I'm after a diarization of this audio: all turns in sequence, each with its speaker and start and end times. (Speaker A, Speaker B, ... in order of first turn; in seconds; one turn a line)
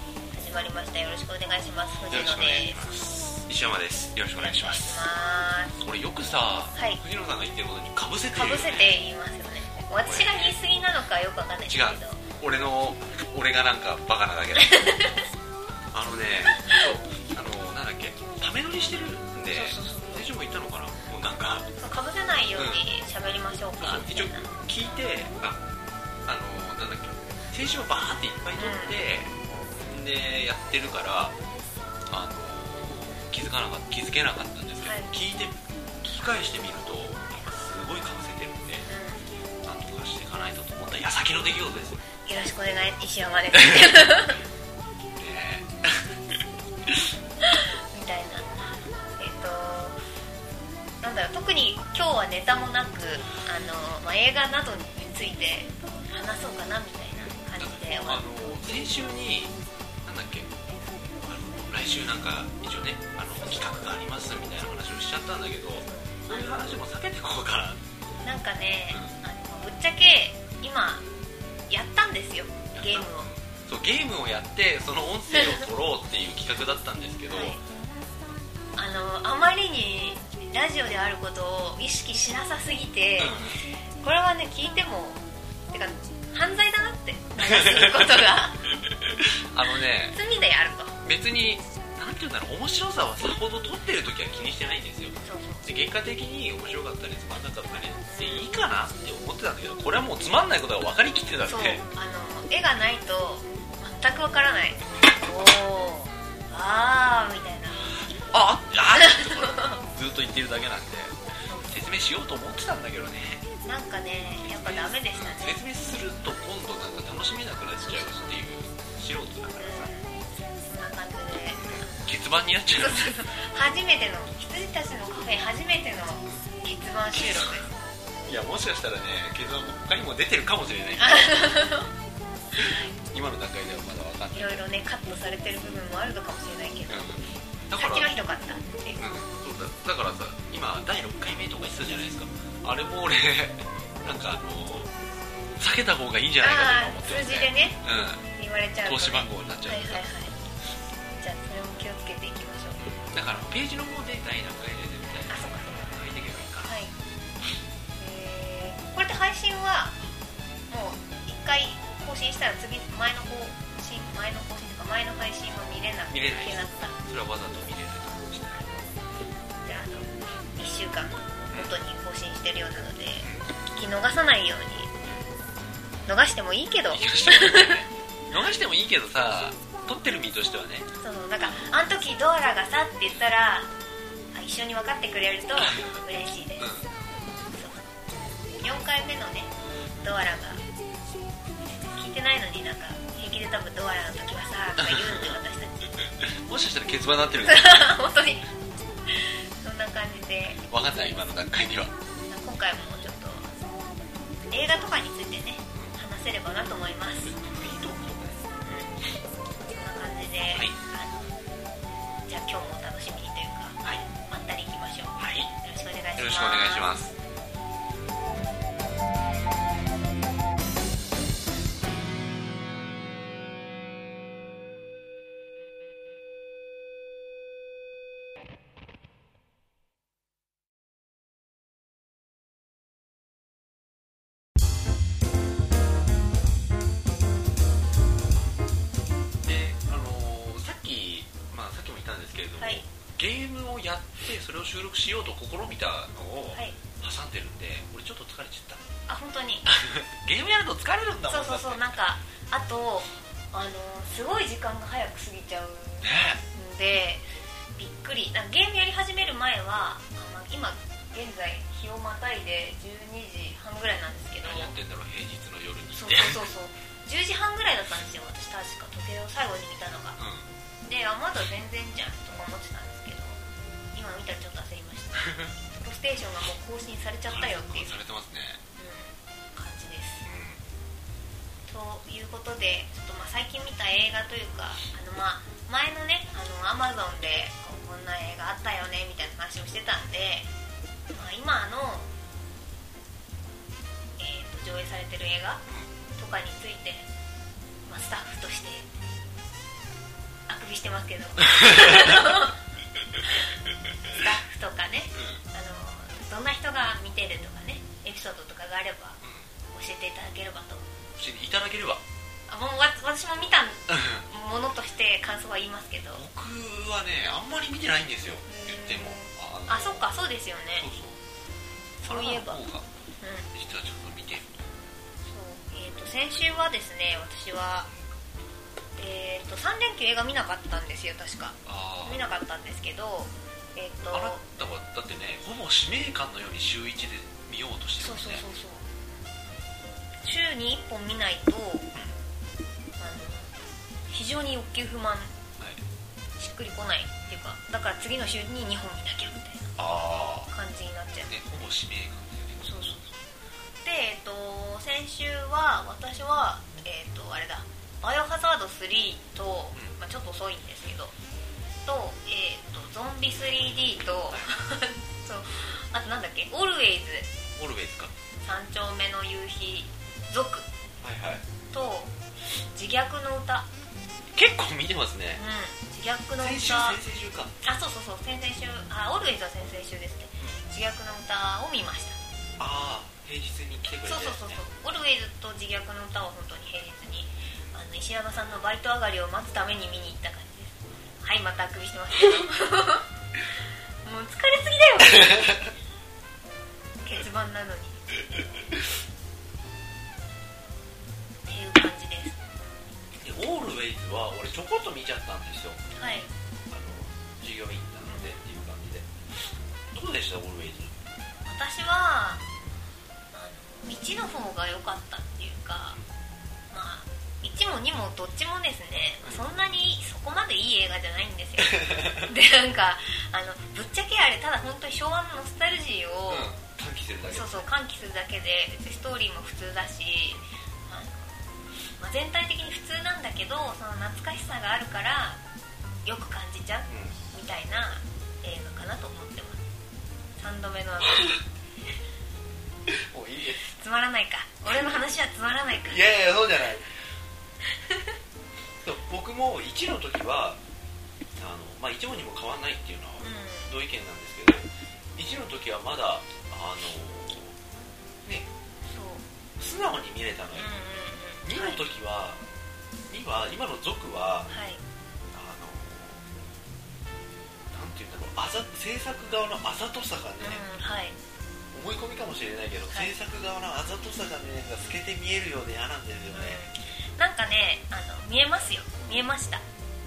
Speaker A: 0.3-2.8
Speaker B: 2.1-5.0
Speaker A: 4.4-5.8
Speaker B: 5.8-8.9
Speaker A: 6.7-7.0
Speaker A: 8.3-12.2
Speaker B: 10.0-10.6
Speaker B: 11.7-15.0
Speaker A: 14.6-15.2
Speaker B: 15.9-21.7
Speaker A: 16.5-16.9
Speaker A: 19.5-20.3
Speaker A: 21.8-24.5
Speaker B: 22.6-22.9
Speaker B: 23.8-25.6
Speaker B: 26.3-31.4
Speaker A: 28.6-29.0
Speaker B: 32.1-38.9
Speaker A: 34.8-35.1
Speaker A: 38.9-39.2
Speaker B: 39.6-42.0
Speaker A: 42.2-44.4
Speaker B: 43.5-44.2
Speaker B: 45.2-47.1
Speaker A: 47.4-50.0
Speaker A: 51.0-58.2
Speaker B: 57.6-59.5
Speaker B: 60.0-60.5
Speaker B: 61.2-67.8
Speaker A: 65.8-66.7
Speaker A: 68.2-71.1
Speaker B: 68.9-69.2
Speaker A: 71.7-73.3
Speaker B: 72.8-77.6
Speaker A: 75.3-75.6
Speaker A: 77.3-77.6
Speaker A: 78.8-83.5
Speaker B: 83.2-83.6
Speaker A: 84.0-88.6
Speaker B: 87.4-88.3
Speaker B: 88.8-90.2
Speaker A: 90.1-91.0
Speaker B: 91.0-101.8
Speaker A: 95.2-95.7
Speaker A: 98.2-98.4
Speaker A: 101.5-107.9
Speaker B: 108.2-111.2
Speaker A: 109.0-109.8
Speaker A: 111.5-111.8
Speaker B: 111.7-113.5
Speaker A: 113.6-115.6
Speaker B: 114.3-119.9
Speaker A: 117.8-118.4
Speaker A: 119.6-120.1
Speaker A: 120.6-122.1
Speaker B: 121.5-123.0
Speaker A: 122.8-127.7
Speaker B: 127.1-127.7
Speaker B: 128.3-131.7
Speaker A: 131.0-131.9
Speaker B: 132.6-134.6
Speaker A: 134.3-137.2
Speaker B: 136.9-138.1
Speaker A: 137.8-139.1
Speaker B: 139.0-144.9
Speaker B: 145.6-148.2
Speaker A: 146.4-147.8
Speaker A: 148.4-150.5
Speaker B: 148.8-150.0
Speaker A: 151.2-152.8
Speaker B: 152.8-156.8
Speaker A: 155.3-155.8
Speaker A: 156.7-156.9
Speaker A: 158.0-160.0
Speaker A: 160.7-167.0
Speaker B: 166.1-168.7
Speaker A: 169.6-174.9
Speaker B: 173.2-173.5
Speaker A: 176.1-177.8
Speaker B: 176.9-180.9
Speaker A: 181.0-183.7
Speaker A: 184.3-186.7
Speaker B: 186.6-186.9
Speaker A: 187.5-187.9
Speaker A: 188.6-190.6
Speaker A: 191.8-196.0
Speaker B: 194.8-195.4
Speaker B: 196.0-197.9
Speaker A: 197.4-198.5
Speaker A: 199.1-200.6
Speaker B: 200.7-201.9
Speaker A: 202.3-203.6
Speaker A: 204.5-207.4
Speaker B: 207.2-208.6
Speaker A: 208.6-209.0
Speaker A: 209.7-211.3
Speaker B: 210.5-210.8
Speaker A: 212.3-216.9
Speaker B: 215.2-215.5
Speaker B: 216.2-217.1
Speaker B: 239.4-248.9
Speaker A: 249.1-249.7
Speaker B: 249.7-252.0
Speaker A: 251.3-257.3
Speaker B: 256.0-256.4
Speaker A: 257.8-264.7
Speaker B: 264.4-266.4
Speaker A: 265.9-270.2
Speaker B: 270.2-270.5
Speaker A: 270.8-273.4
Speaker A: 273.9-278.0
Speaker B: 275.2-275.5
Speaker B: 277.3-278.6
Speaker A: 278.8-280.3
Speaker B: 280.2-280.6
Speaker A: 281.7-290.5
Speaker A: 291.1-292.1
Speaker A: 294.2-295.6
Speaker A: 296.2-297.1
Speaker A: 297.9-298.9
Speaker A: 300.5-302.6
Speaker B: 301.6-302.2
Speaker A: 303.2-303.5
Speaker A: 304.1-309.2
Speaker B: 305.1-305.4
Speaker B: 309.2-309.5
Speaker A: 309.7-310.9
Speaker B: 311.2-312.0
Speaker A: 312.5-316.2
Speaker B: 313.9-314.2
Speaker B: 316.1-320.1
Speaker A: 318.5-320.9
Speaker B: 320.8-321.2
Speaker A: 322.0-322.6
Speaker B: 322.1-322.9
Speaker A: 323.2-323.5
Speaker B: 323.5-324.5
Speaker A: 325.3-327.9
Speaker A: 329.0-334.4
Speaker B: 331.6-332.3
Speaker B: 334.1-338.4
Speaker A: 338.0-338.9
Speaker A: 340.2-341.9
Speaker A: 343.0-343.5
Speaker A: 344.1-345.3
Speaker B: 345.6-345.8
Speaker A: 346.4-349.7
Speaker B: 349.8-350.5
Speaker A: 350.5-351.4
Speaker B: 351.3-352.7
Speaker A: 352.6-353.2
Speaker A: 353.8-361.1
Speaker A: 361.9-367.3
Speaker B: 367.6-368.1
Speaker A: 368.4-370.7
Speaker B: 371.0-371.4
Speaker A: 371.7-373.7
Speaker B: 374.4-375.4
Speaker A: 375.4-377.0
Speaker B: 376.4-377.6
Speaker A: 377.6-382.2
Speaker B: 382.6-384.6
Speaker A: 384.1-393.1
Speaker A: 394.1-395.7
Speaker B: 395.0-395.7
Speaker A: 397.0-398.0
Speaker A: 401.5-402.4
Speaker B: 403.2-405.8
Speaker A: 405.9-406.3
Speaker B: 406.7-409.1
Speaker A: 408.1-408.4
Speaker B: 409.9-411.0
Speaker A: 411.4-412.4
Speaker A: 413.3-416.0
Speaker A: 416.7-426.5
Speaker B: 421.6-422.3
Speaker B: 426.3-427.7
Speaker A: 427.3-435.4
Speaker A: 436.1-439.6
Speaker B: 436.9-437.2
Speaker A: 440.4-441.4
Speaker B: 442.9-443.7
Speaker A: 443.7-446.0
Speaker B: 444.7-445.0
Speaker B: 445.8-447.0
Speaker B: 448.8-450.6
Speaker B: 451.4-457.6
Speaker A: 453.2-453.7
Speaker A: 458.9-459.3
Speaker B: 459.6-460.7
Speaker A: 460.6-461.9
Speaker B: 461.4-462.4
Speaker B: 463.1-464.5
Speaker A: 464.5-464.8
Speaker B: 465.3-466.3
Speaker B: 467.7-470.6
Speaker A: 470.4-471.2
Speaker B: 471.7-476.8
Speaker A: 476.3-479.6